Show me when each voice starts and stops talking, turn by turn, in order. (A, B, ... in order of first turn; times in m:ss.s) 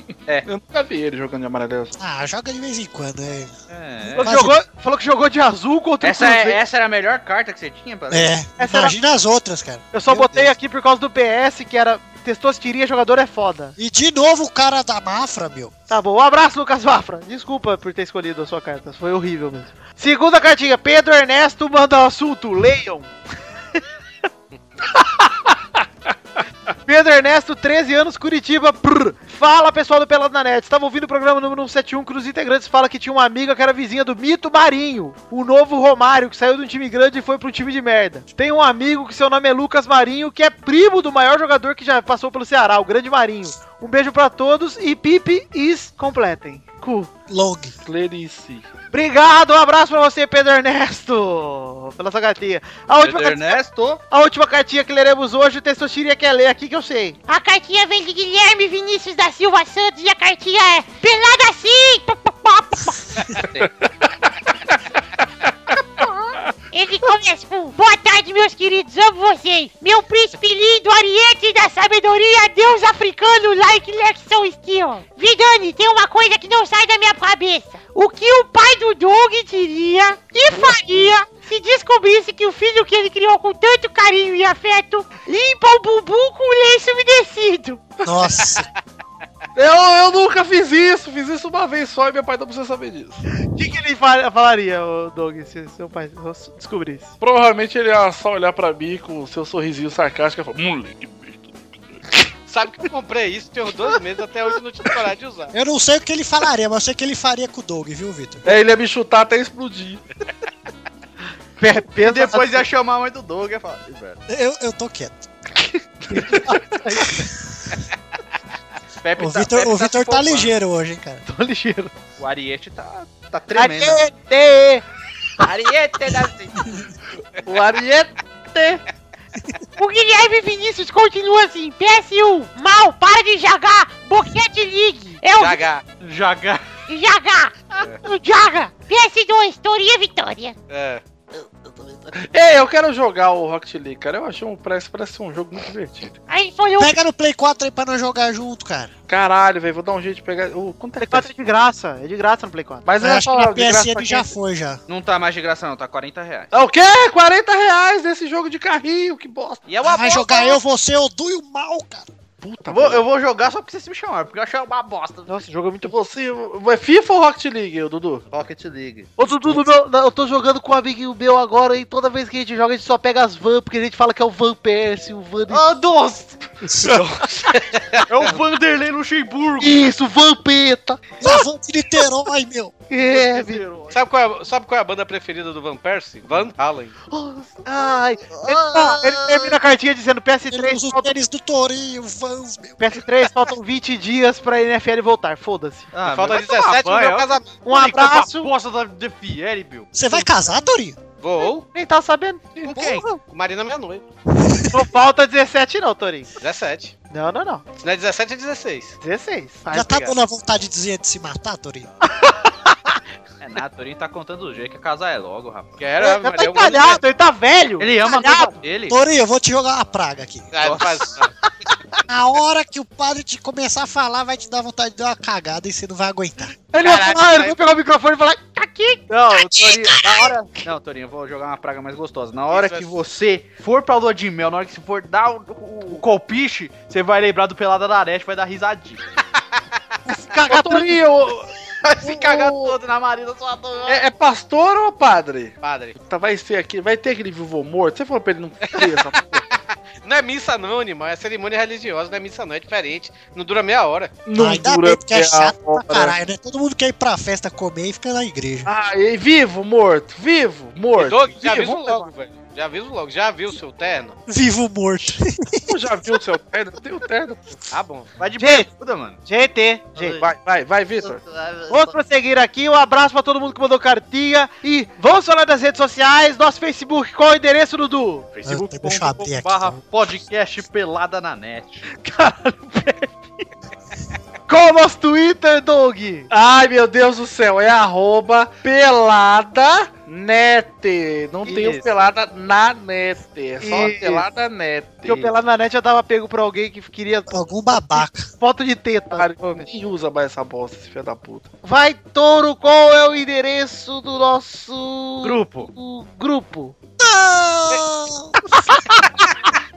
0:00.4-0:02.0 A
0:02.0-0:03.5 B
0:03.7-0:04.3 C
0:04.0-0:04.6 B
0:04.2-0:06.6 D
0:06.0-0:08.4 C
0:08.1-0:09.9 B
0:08.6-0:09.0 D
0:09.9-0:13.7 D
0:10.1-0:10.4 C
0:13.8-0:15.7 B
0:15.9-0:23.1 D
0:26.9-0:47.1 D
0:47.3-0:47.7 B
0:47.8-0:48.6 A
0:48.9-0:57.2 D
0:53.0-0:54.0 C
0:57.3-1:03.0 E
1:03.3-1:03.7 C
1:03.4-1:04.7 A
1:06.0-1:28.0 E
1:28.0-1:28.7 B
1:29.6-1:33.2 A
1:33.5-1:37.1 D
1:37.2-1:42.0 A
1:42.5-1:45.5 F
1:45.5-1:48.4 B
1:48.4-1:50.0 A
1:51.6-1:52.7 D
1:52.0-1:54.2 C
1:54.3-1:55.3 B
1:56.0-1:56.8 A
1:56.1-1:57.3 D
1:59.0-2:00.5 C
1:59.2-2:01.2 B
2:01.3-2:01.9 D
2:02.2-2:04.0 C
2:03.5-2:04.8 D
2:05.4-2:06.5 C
2:07.4-2:08.8 A
2:09.8-2:15.6 E
2:15.4-2:15.8 F
2:16.0-2:16.6 C
2:16.9-2:20.6 E
2:20.7-2:21.0 F
2:22.2-2:26.2 A
2:26.3-2:27.0 E
2:26.8-2:28.9 B
2:29.1-2:31.3 A
2:31.0-2:32.9 D
2:32.9-2:34.3 A
2:33.0-2:34.8 B
2:34.9-2:36.5 C
2:36.5-2:39.6 A
2:39.7-2:40.6 C
2:39.8-2:42.1 B
2:42.4-2:43.1 A
2:42.7-2:45.3 C
2:45.3-2:46.0 D
2:45.8-2:48.2 A
2:48.3-2:49.1 C
2:49.2-2:55.7 D
2:55.5-2:56.4 C
2:56.8-2:57.1 A
2:57.0-2:57.5 C
2:58.0-2:59.9 C
2:59.6-3:01.3 D
3:01.2-3:02.7 B
3:02.9-3:03.6 D
3:03.1-3:04.0 C
3:03.9-3:06.9 F
3:07.1-3:11.1 D
3:08.3-3:09.6 C
3:10.5-3:12.8 B
3:12.8-3:15.9 D
3:15.9-3:19.9 C
3:16.0-3:18.2 F
3:17.6-3:18.5 D
3:19.9-3:21.0 B
3:21.2-3:21.7 F
3:21.4-3:23.2 D
3:22.6-3:23.1 C
3:23.3-3:24.0 F
3:24.4-3:24.9 B
3:24.7-3:26.3 D
3:26.4-3:26.9 F
3:27.1-3:27.6 D
3:27.8-3:29.0 F
3:29.0-3:30.2 D
3:29.7-3:31.9 B
3:32.1-3:33.0 D
3:33.4-3:35.8 C
3:35.8-3:37.0 F
3:36.0-3:38.6 D
3:37.8-3:39.0 C
3:38.9-3:40.5 B
3:40.5-3:41.3 F
3:40.6-3:41.0 C
3:42.1-3:46.5 B
3:46.7-3:48.5 D
3:46.8-3:47.6 F
3:48.6-3:49.0 E
3:49.1-3:59.0 C
3:52.5-3:52.9 F
4:00.1-4:01.0 D
4:00.4-4:02.8 A
4:01.8-4:04.0 C
4:03.9-4:09.5 A
4:05.6-4:06.0 F
4:10.0-4:14.1 F
4:14.3-4:16.2 A
4:14.4-4:18.7 B
4:18.7-4:22.1 A
4:21.0-4:24.2 F
4:24.3-4:25.7 B
4:25.6-4:27.7 A
4:27.7-4:28.1 F
4:28.2-4:29.2 C
4:28.4-4:28.7 D
4:29.2-4:30.2 D
4:30.0-4:30.3 C
4:30.2-4:31.2 A
4:31.0-4:31.9 C
4:31.7-4:38.3 D
4:38.3-4:41.9 C
4:38.4-4:39.8 B
4:41.9-4:43.4 D
4:44.5-4:46.3 D
4:46.3-4:55.3 A
4:51.5-4:51.9 D
4:53.6-4:54.3 D
4:55.0-4:57.4 D
4:57.3-4:58.3 B
4:57.9-4:59.7 D
4:59.1-5:01.5 A
5:01.6-5:06.8 D
5:05.2-5:05.7 C
5:07.0-5:08.3 B
5:08.5-5:09.0 D